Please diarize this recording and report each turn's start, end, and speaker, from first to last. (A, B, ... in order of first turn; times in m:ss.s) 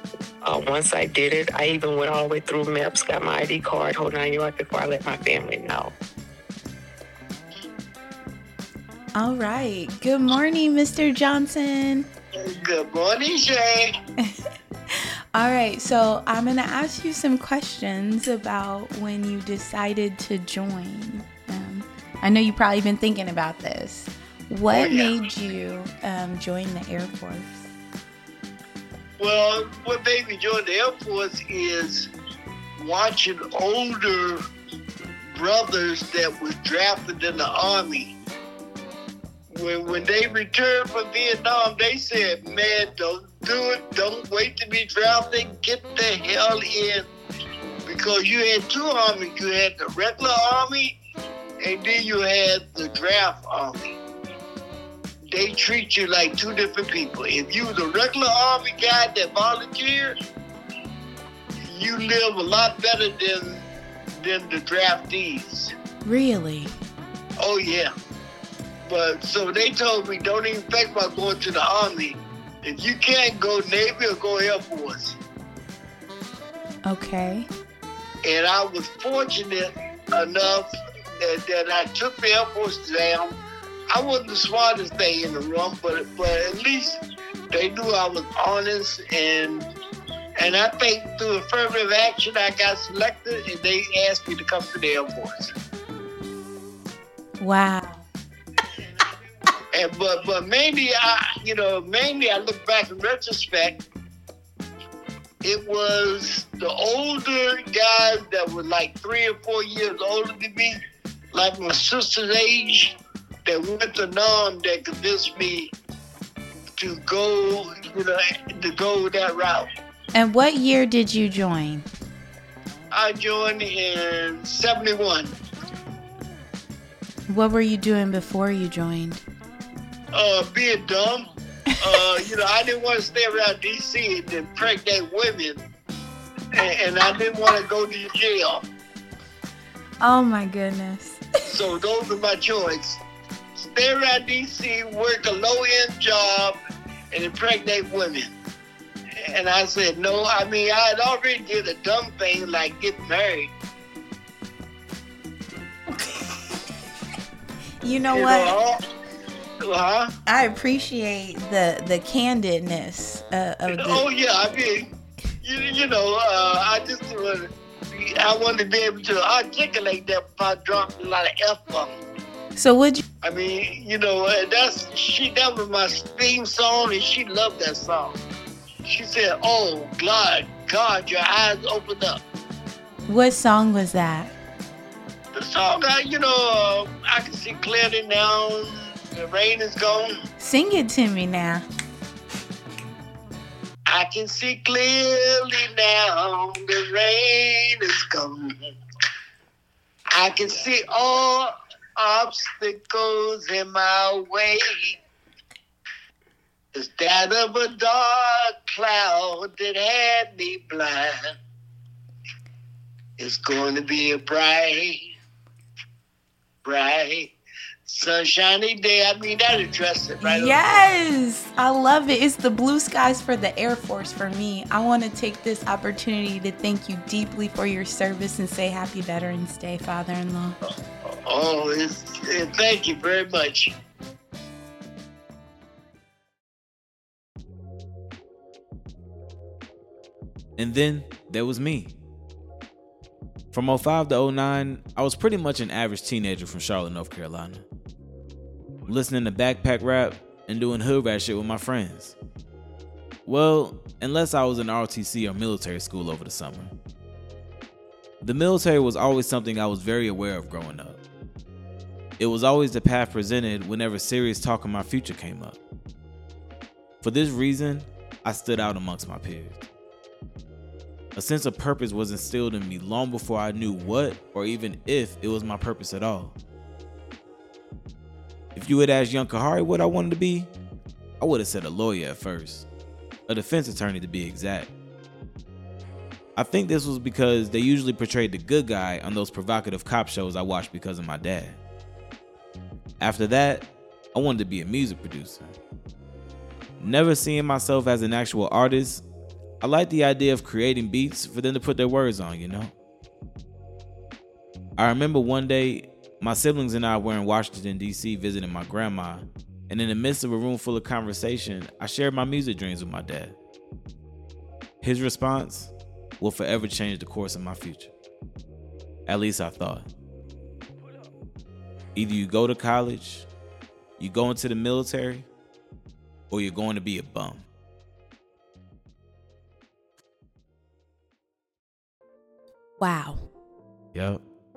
0:00.4-0:05.9 A
0:09.2-0:12.1 B
0:12.5-0:13.9 C
0:15.3-0:27.7 B
0:24.7-0:25.2 C
0:29.2-0:32.1 C
0:32.8-0:34.4 C
0:35.3-0:38.1 C
0:39.5-0:47.0 C
0:47.8-0:51.0 C
0:51.6-0:54.0 C
0:55.3-1:00.2 C
1:01.6-1:03.6 C
1:04.2-1:05.7 C
1:06.0-1:06.7 B
1:07.4-1:07.9 C
1:08.9-1:15.2 C
1:16.8-1:17.5 B
1:18.2-1:20.7 C
1:21.2-1:23.4 C
1:23.9-1:27.0 C
1:27.5-1:29.7 C
1:30.4-1:35.5 C
1:37.4-1:38.1 B
1:39.7-1:43.8 C
1:45.4-1:50.8 C
1:51.3-1:52.9 C
1:53.5-1:55.7 C
1:56.8-1:59.7 C
2:00.1-2:01.9 B
2:02.9-2:05.3 C
2:07.3-2:09.2 B
2:10.1-2:15.6 C
2:16.6-2:18.6 C
2:20.0-2:21.3 B
2:21.5-2:23.0 C
2:23.6-2:26.6 C
2:27.1-2:28.3 C
2:29.3-2:33.5 C
2:37.8-2:38.6 B
2:38.1-2:38.8 C
2:39.6-2:40.1 C
2:40.3-2:44.0 B
2:43.7-2:44.9 C
2:45.4-2:52.0 C
2:52.5-2:53.0 B
2:53.2-2:58.2 C
2:58.9-3:02.2 C
3:03.1-3:04.3 B
3:05.3-3:10.2 C
3:10.4-3:11.6 B
3:13.9-3:18.5 C
3:20.2-3:25.0 C
3:26.8-3:31.2 C
3:33.2-3:35.1 C
3:36.6-3:37.3 C
3:37.9-3:40.9 C
3:40.2-3:50.6 B
3:51.3-3:53.7 C
4:00.6-4:02.0 D
4:03.5-4:07.6 D
4:08.9-4:12.2 D
4:13.3-4:16.8 D
4:18.2-4:21.0 D
4:22.2-4:25.6 D
4:27.0-4:29.6 D
4:31.1-4:36.4 D
4:38.6-4:40.5 D
4:41.2-4:42.7 D
4:43.3-4:44.7 D
4:46.4-4:51.6 D
4:53.0-4:55.5 D
4:56.8-4:59.0 D
4:59.6-5:02.7 D
5:04.8-5:13.4 D
5:14.8-5:17.9 D
5:19.0-5:19.9 D
5:21.9-5:23.3 D
5:24.0-5:25.3 D
5:26.3-5:27.4 D
5:32.8-5:33.2 B
5:33.9-5:34.2 D